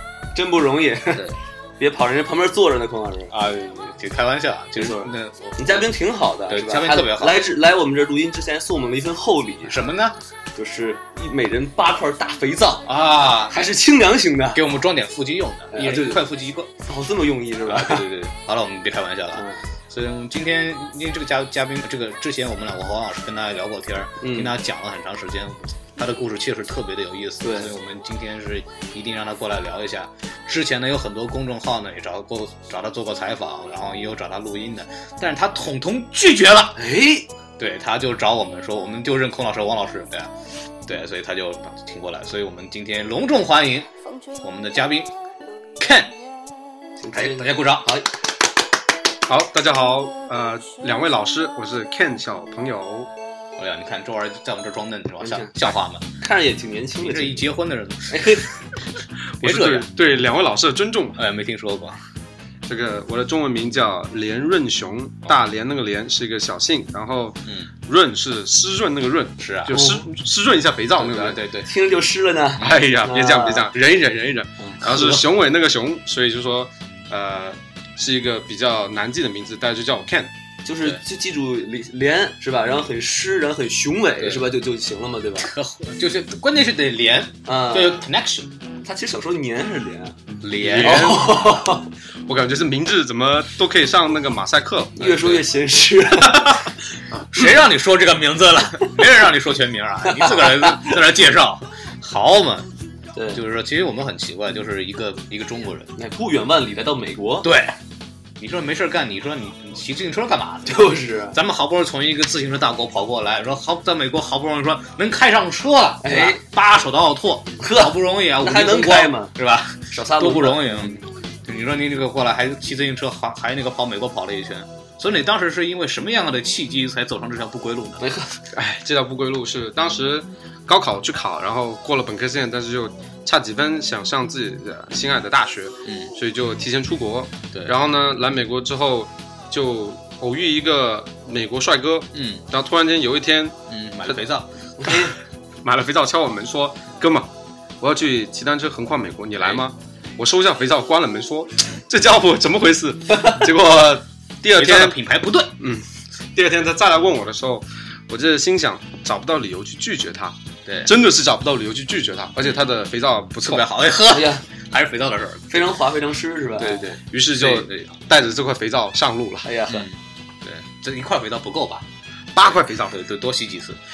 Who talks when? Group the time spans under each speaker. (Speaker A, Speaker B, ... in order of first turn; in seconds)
Speaker A: 0.3-3.3, 4.8-9.8, 10.5-12.9, 13.5-14.6, 15.7-16.2, 16.8-18.1, 19.3-19.6, 24.2-24.5, 27.4-27.7, 36.8-37.2, 47.0-48.1, 55.2-55.5, 56.2-57.5, 58.1-58.5, 69.7-70.1, 71.6-73.7, 74.8-75.2, 80.6-85.5, 87.4-88.0, 88.8-90.2, 90.8-91.9, 95.0-96.7, 100.1-101.0, 106.0-107.5, 110.7-111.4, 116.0-116.4, 117.6-119.3, 119.9-120.9, 128.0-128.3, 144.8-145.1, 164.1-164.4, 165.5-166.8, 169.4-169.9
Speaker B: 3.3-5.9, 6.5-7.5, 9.7-10.2, 12.8-13.6, 14.5-16.7, 17.7-36.8, 37.6-40.3, 40.9-45.1, 45.8-46.1, 47.1-48.0, 53.6-56.1, 57.0-58.5, 59.4-59.9, 61.2-62.0, 67.5-67.7, 69.4-69.8, 71.0-71.7, 72.6-72.8, 84.2-84.5, 85.4-88.5, 90.4-91.2, 96.2-96.6, 97.1-102.7, 103.3-105.9, 107.4-107.7, 108.4-128.0, 135.8-136.1, 142.1-142.4, 143.7-144.5, 154.5-155.5, 160.7-160.9, 163.4-165.8, 166.6-167.9, 169.7-171.8, 172.4-173.8
Speaker C: 49.2-53.1, 59.4-61.2, 62.7-71.4, 72.6-80.3, 90.6-91.3, 92.3-95.4, 128.5-144.2, 145.6-155.0, 155.6-163.7, 166.6-169.5, 172.3-172.9